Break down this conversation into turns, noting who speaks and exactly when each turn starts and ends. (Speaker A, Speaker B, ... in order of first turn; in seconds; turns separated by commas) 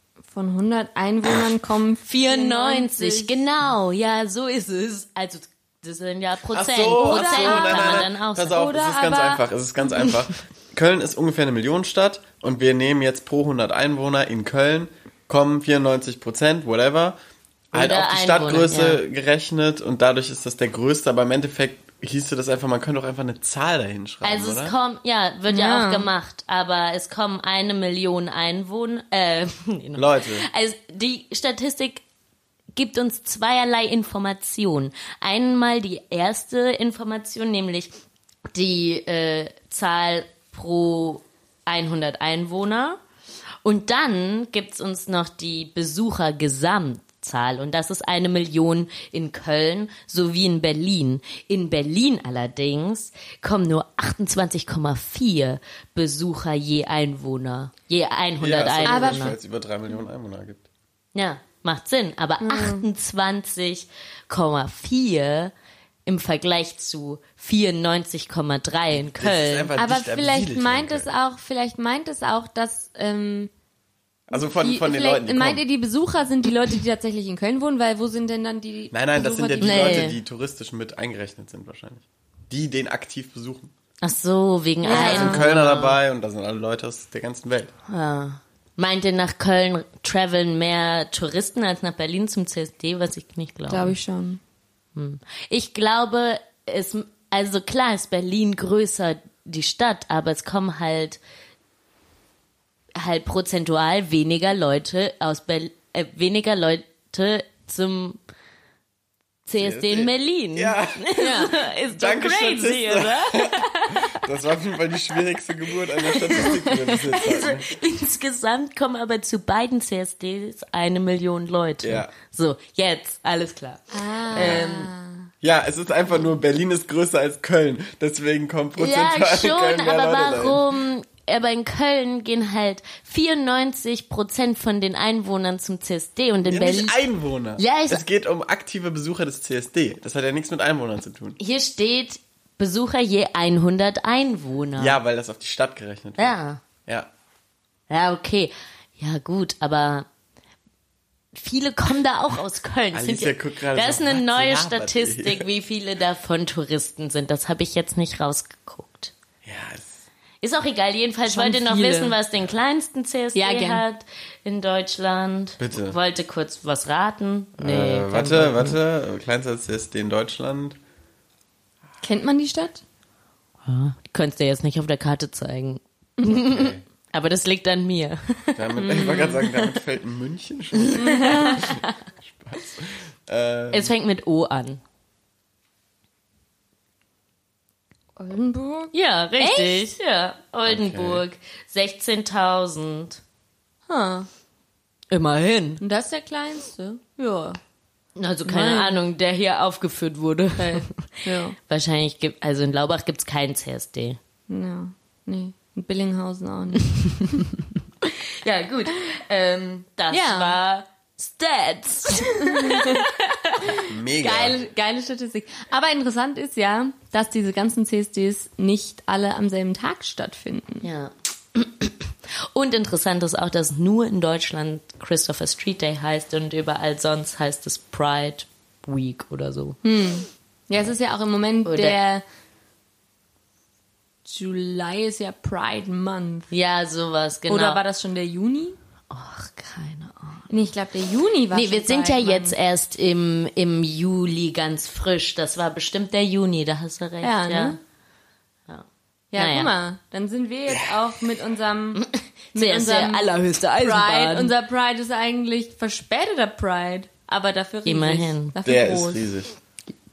Speaker A: 0.3-3.4, Speaker B: 2.1-8.6, Speaker C: 6.5-17.2, Speaker A: 7.0-9.4, Speaker C: 17.7-24.7, Speaker B: 17.7-19.0, Speaker B: 24.2-32.0, Speaker A: 25.5-26.1, Speaker C: 29.9-30.4, Speaker B: 32.7-37.9, Speaker B: 38.5-43.0, Speaker B: 43.6-59.4, Speaker C: 58.4-60.6, Speaker A: 58.8-59.3, Speaker B: 61.1-65.5, Speaker A: 62.4-62.9, Speaker B: 66.0-69.7, Speaker C: 69.0-71.1, Speaker A: 69.8-73.5, Speaker C: 74.3-75.6, Speaker A: 74.3-80.1, Speaker C: 78.9-83.7, Speaker B: 79.6-80.2, Speaker B: 84.0-86.0, Speaker A: 84.8-85.4, Speaker C: 84.8-87.7, Speaker B: 87.9-93.9, Speaker A: 93.7-94.4, Speaker B: 95.0-101.2, Speaker B: 102.9-108.2, Speaker B: 109.5-114.2, Speaker C: 109.6-117.7, Speaker A: 111.2-111.5, Speaker B: 116.3-124.9, Speaker C: 121.8-122.1, Speaker A: 123.9-125.3, Speaker C: 124.3-124.7, Speaker C: 125.4-130.6, Speaker B: 128.8-137.0, Speaker C: 136.4-141.4, Speaker B: 137.6-138.0, Speaker B: 141.4-144.9, Speaker C: 144.8-147.1, Speaker B: 146.2-146.6, Speaker B: 147.9-150.1, Speaker B: 151.3-159.1, Speaker C: 152.9-155.5, Speaker C: 159.4-160.0, Speaker B: 160.4-168.8, Speaker A: 161.3-162.1, Speaker A: 163.3-163.8, Speaker C: 165.6-166.0, Speaker C: 167.6-170.8, Speaker A: 172.0-172.8, Speaker B: 173.7-179.3, Speaker C: 176.3-176.8, Speaker C: 178.5-183.9, Speaker A: 178.8-179.5, Speaker A: 181.0-181.7, Speaker B: 181.0-181.8, Speaker B: 183.7-184.8, Speaker A: 188.2-189.9, Speaker B: 188.9-193.2, Speaker C: 190.7-191.2, Speaker A: 193.9-194.3, Speaker B: 195.1-195.8, Speaker A: 195.8-197.6, Speaker B: 198.2-204.2, Speaker A: 198.4-198.9, Speaker A: 200.6-201.6, Speaker A: 204.5-207.5, Speaker B: 208.1-213.1, Speaker A: 210.1-210.6, Speaker A: 212.4-220.8, Speaker C: 213.8-214.6, Speaker B: 220.8-229.8, Speaker A: 229.8-232.2, Speaker B: 231.6-232.0, Speaker A: 234.2-236.5, Speaker B: 236.5-237.8, Speaker A: 237.5-238.8, Speaker B: 239.1-240.5, Speaker A: 240.5-242.5, Speaker B: 241.5-247.8, Speaker A: 247.2-247.8, Speaker B: 248.7-249.7, Speaker A: 249.3-259.2, Speaker B: 251.9-254.5, Speaker B: 257.9-258.6, Speaker C: 258.6-259.5